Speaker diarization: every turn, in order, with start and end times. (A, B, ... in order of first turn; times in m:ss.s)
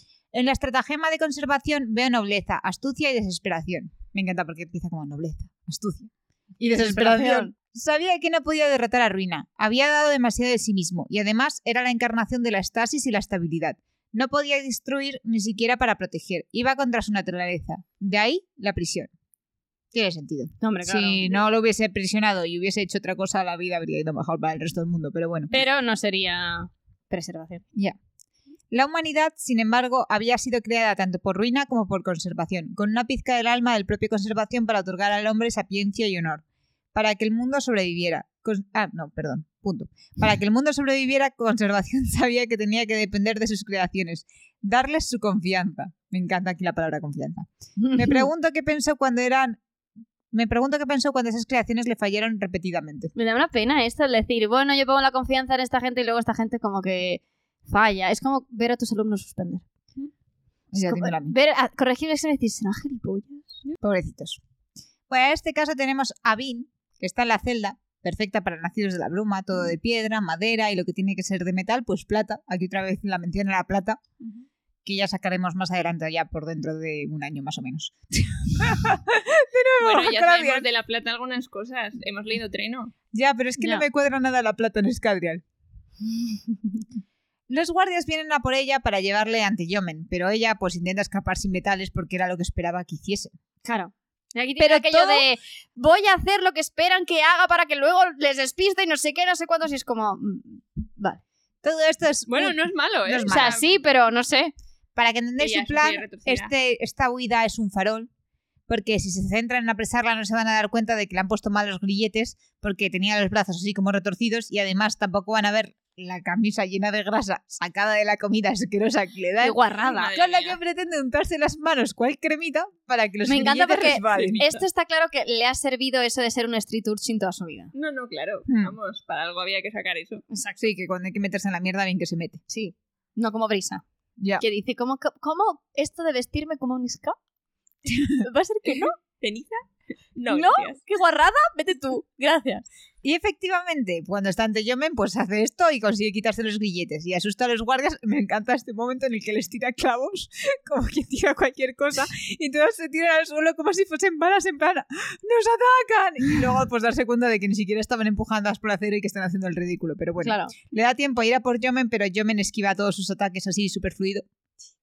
0:00.3-0:19.1 A
0:06.7-0:07.5 B
0:19.9-0:25.6 A
0:20.6-0:21.4 B
0:25.5-0:27.6 B
0:28.7-0:36.4 A
0:36.9-0:49.6 A
0:47.8-0:48.3 B
0:50.3-0:53.1 A
0:53.2-0:59.6 B
1:00.7-1:01.4 A
1:00.8-1:03.6 B
1:03.8-1:04.4 A
1:05.1-1:14.0 A
1:14.8-1:20.7 A
1:19.8-1:22.9 C
1:23.1-1:25.4 A
1:23.6-1:23.8 B
1:27.5-1:33.4 A
1:33.6-1:41.2 B
1:34.6-1:35.3 A
1:41.6-1:43.6 A
1:42.3-1:43.7 C
1:43.2-1:44.5 B
1:45.0-1:48.1 A
1:45.4-1:46.5 C
1:48.7-1:59.6 A
1:59.4-2:00.1 B
1:59.8-2:00.6 C
2:00.1-2:04.4 A
2:03.3-2:07.7 B
2:04.1-2:04.6 C
2:07.7-2:10.2 C
2:08.5-2:08.8 A
2:10.3-2:10.7 B
2:10.6-2:12.4 A
2:12.5-2:13.8 B
2:14.4-2:17.2 B
2:17.9-2:18.2 A
2:18.2-2:19.0 B
2:18.8-2:19.6 C
2:20.2-2:20.8 C
2:20.3-2:22.6 B
2:23.0-2:44.2 A
2:40.2-2:40.5 B